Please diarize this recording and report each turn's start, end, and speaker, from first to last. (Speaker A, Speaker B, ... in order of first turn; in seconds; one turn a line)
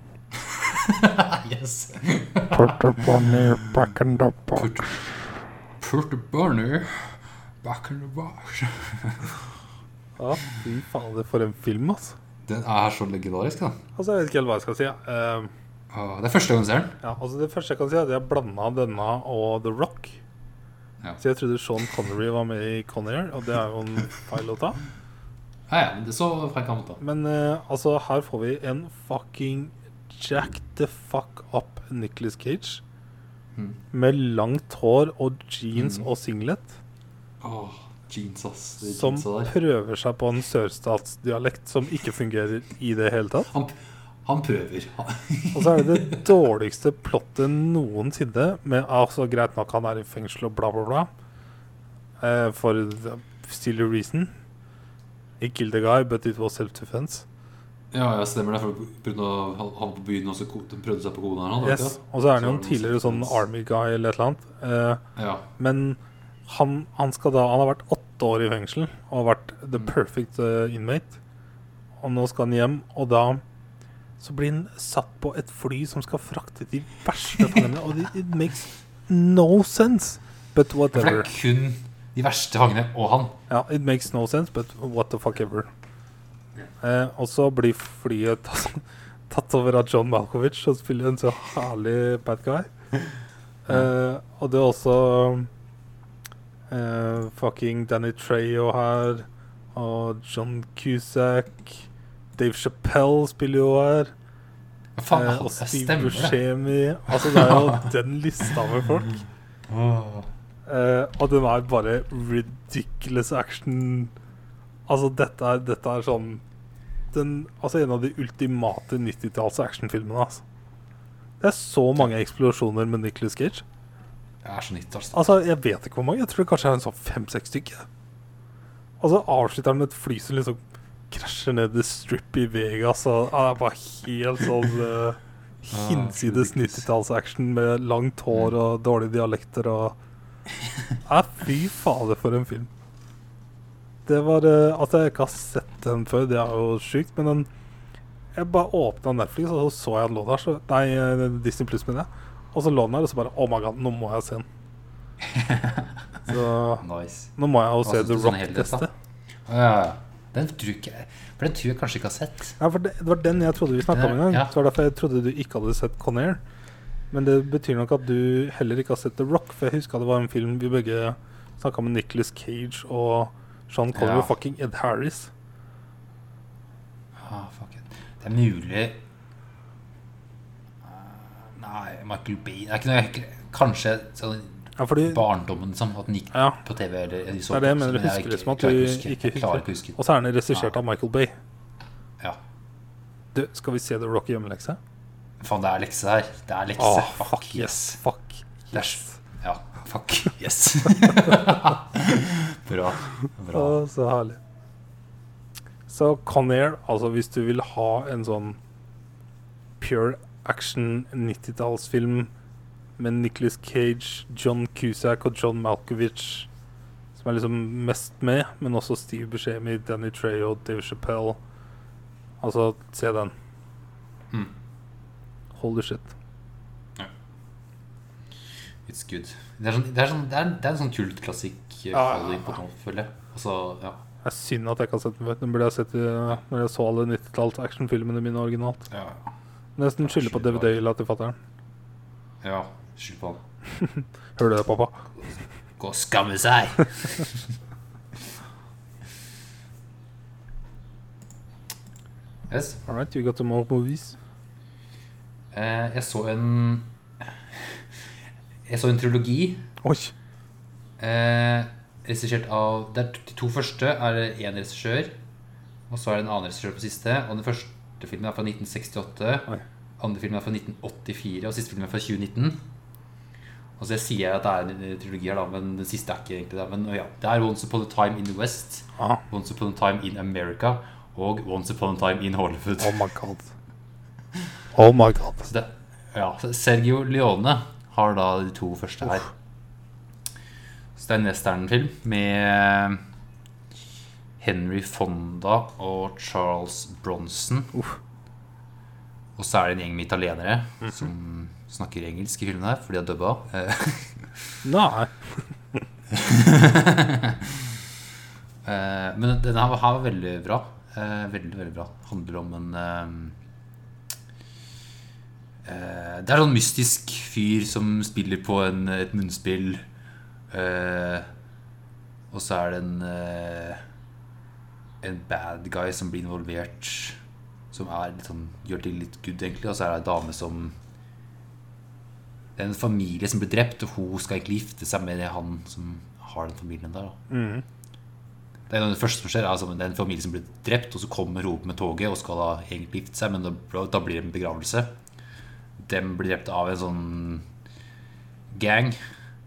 Speaker A: 0.4-3.4
Speaker B: 2.5-4.9
Speaker A: 4.5-5.0
Speaker A: 5.8-9.4
Speaker B: 10.2-12.2
Speaker A: 12.4-13.8
Speaker B: 13.9-15.5
Speaker A: 15.9-17.0
Speaker B: 17.0-20.2
Speaker B: 21.2-24.8
Speaker A: 25.7-27.0
Speaker B: 27.0-32.8
Speaker A: 33.5-33.8
Speaker B: 33.9-36.8
Speaker A: 37.4-39.5
Speaker B: 38.8-43.5
Speaker A: 43.5-46.2
Speaker B: 45.5-51.1
Speaker B: 52.2-54.3
Speaker B: 55.4-57.2
Speaker A: 57.9-63.4
Speaker B: 61.6-65.0
Speaker A: 65.2-65.5
Speaker B: 65.6-71.2
Speaker B: 72.0-73.4
Speaker B: 74.2-81.3
Speaker A: 80.9-83.4
Speaker B: 83.5-85.7
Speaker B: 86.8-92.7
Speaker B: 93.7-95.5
Speaker B: 96.7-101.9
Speaker B: 102.4-104.1
Speaker A: 105.0-106.4
Speaker B: 105.1-109.2
Speaker A: 107.3-107.8
Speaker A: 109.7-110.3
Speaker B: 110.7-114.1
Speaker B: 114.9-116.4
Speaker B: 117.1-120.4
Speaker B: 121.4-123.6
Speaker A: 124.4-125.2
Speaker B: 125.1-127.9
Speaker B: 129.0-130.6
Speaker B: 131.1-139.9
Speaker A: 135.7-136.8
Speaker B: 141.0-142.7
Speaker B: 144.1-147.5
Speaker B: 148.3-154.4
Speaker A: 155.2-158.9
Speaker B: 156.2-156.8
Speaker B: 157.4-158.9
Speaker A: 159.4-162.6
Speaker B: 162.6-166.4
Speaker A: 163.9-164.5
Speaker B: 167.1-175.3
Speaker A: 173.9-174.3
Speaker A: 177.2-179.0
Speaker A: 180.8-190.0
Speaker B: 184.8-185.2
Speaker B: 186.3-186.6
Speaker B: 187.5-191.3
Speaker B: 193.3-194.8
Speaker A: 195.4-198.0
Speaker B: 196.8-199.2
Speaker A: 198.7-203.8
Speaker B: 203.5-204.4
Speaker B: 205.9-208.6
Speaker B: 209.8-212.3
Speaker B: 213.0-216.5
Speaker B: 217.2-221.4
Speaker B: 222.4-223.3
Speaker B: 225.5-226.1
Speaker A: 228.9-234.0
Speaker B: 231.9-232.4
Speaker B: 234.2-238.9
Speaker A: 238.9-239.3
Speaker B: 239.8-241.4
Speaker A: 240.0-240.7
Speaker A: 242.4-243.4
Speaker B: 243.8-245.0
Speaker A: 245.8-247.3
Speaker A: 252.5-252.8
Speaker B: 252.9-254.2
Speaker A: 255.5-257.8
Speaker A: 258.7-259.6
Speaker B: 259.8-260.1
Speaker A: 261.0-265.1
Speaker A: 265.9-269.5
Speaker A: 270.0-272.6
Speaker A: 273.8-283.0
Speaker B: 279.0-279.2
Speaker B: 282.8-283.5
Speaker B: 284.7-285.5
Speaker A: 285.4-289.3
Speaker A: 290.9-293.0
Speaker A: 294.4-297.7
Speaker A: 299.4-304.5
Speaker B: 304.6-305.5
Speaker A: 306.1-307.8
Speaker A: 308.6-313.4
Speaker A: 315.6-319.8
Speaker A: 320.5-321.2
Speaker A: 322.3-323.8
Speaker A: 325.0-327.2
Speaker A: 327.7-330.8
Speaker A: 332.6-337.1
Speaker B: 337.3-337.6
Speaker A: 338.7-344.9
Speaker A: 345.8-347.4
Speaker A: 348.5-348.9